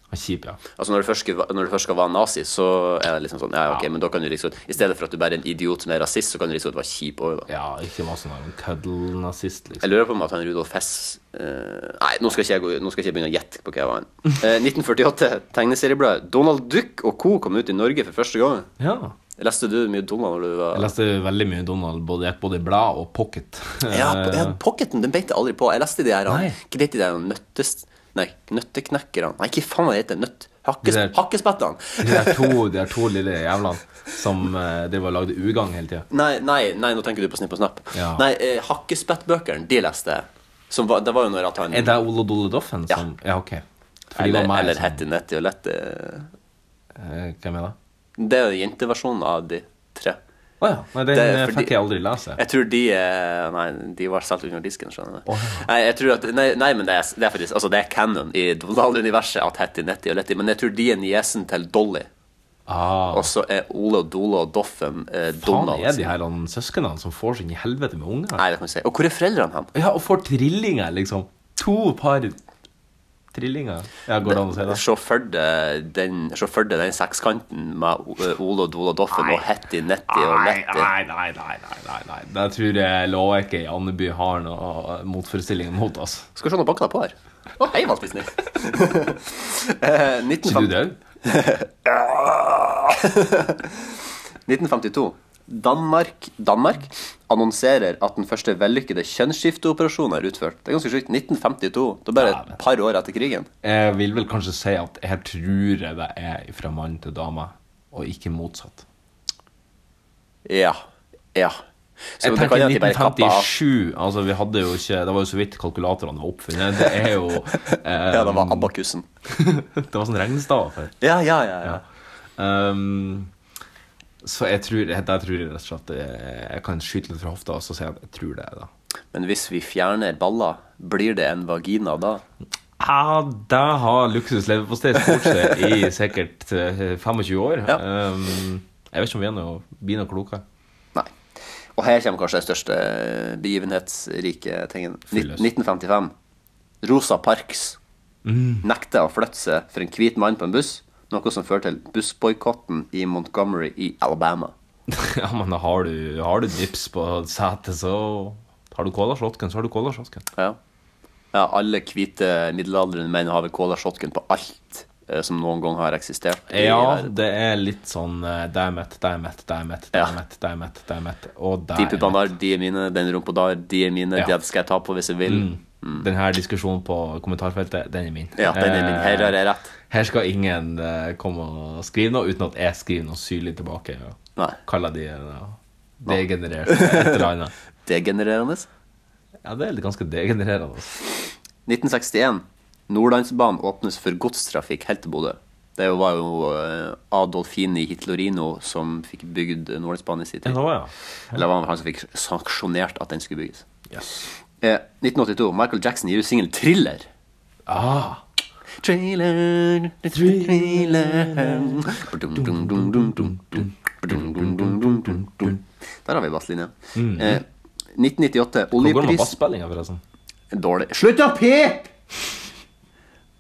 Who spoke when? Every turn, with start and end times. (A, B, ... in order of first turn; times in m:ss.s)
0:00.1-0:00.6 A
0:00.8-0:07.5 B
0:07.5-0:09.9 A
0:09.8-0:18.7 B
0:18.8-0:19.2 A
0:19.4-0:20.9 B
0:20.7-0:24.6 A
0:23.9-0:32.6 B
0:26.3-0:26.6 A
0:30.8-0:31.2 A
0:32.0-0:36.1 A
0:36.1-0:42.0 B
0:37.9-0:38.2 A
0:41.7-0:45.0 A
0:44.1-0:46.3 B
0:47.0-0:47.8 A
0:48.2-0:50.2 B
0:50.6-0:52.4 A
0:51.1-0:51.8 B
0:52.4-1:02.1 B
0:55.3-0:55.7 A
1:02.7-1:03.3 A
1:03.1-1:06.1 B
1:05.4-1:08.4 A
1:08.4-1:09.7 B
1:09.7-1:12.4 A
1:13.3-1:14.8 A
1:14.2-1:20.9 B
1:19.2-1:19.4 A
1:20.1-1:26.3 A
1:26.4-1:33.9 B
1:30.4-1:31.0 A
1:34.5-1:43.5 B
1:42.2-1:42.6 A
1:43.6-1:48.8 A
1:50.5-1:50.8 B
1:52.2-1:53.5 B
1:52.2-1:58.7 A
1:57.7-1:59.1 B
1:59.3-2:01.0 A
2:01.0-2:01.8 B
2:02.4-2:03.3 A
2:04.2-2:08.7 A
2:09.1-2:12.2 B
2:12.8-2:20.4 A
2:21.8-2:26.1 B
2:25.1-2:25.5 A
2:26.8-2:27.8 B
2:28.2-2:28.7 A
2:28.6-2:34.5 B
2:34.9-2:40.2 A
2:41.3-2:47.1 B
2:46.5-2:52.3 A
2:51.8-2:56.1 B
2:55.3-3:07.5 A
2:58.4-2:59.7 B
3:06.1-3:07.2 B
3:07.9-3:08.7 B
3:09.4-3:11.0 A
3:11.7-3:20.6 B
3:20.4-3:20.9 A
3:21.3-3:23.6 B
3:23.9-3:24.2 A
3:24.6-3:27.1 B
3:27.7-3:28.2 A
3:28.8-3:39.3 B
3:30.1-3:31.8 A
3:32.4-3:35.6 A
3:37.0-3:37.4 A
3:38.8-3:40.0 A
3:40.5-3:41.6 B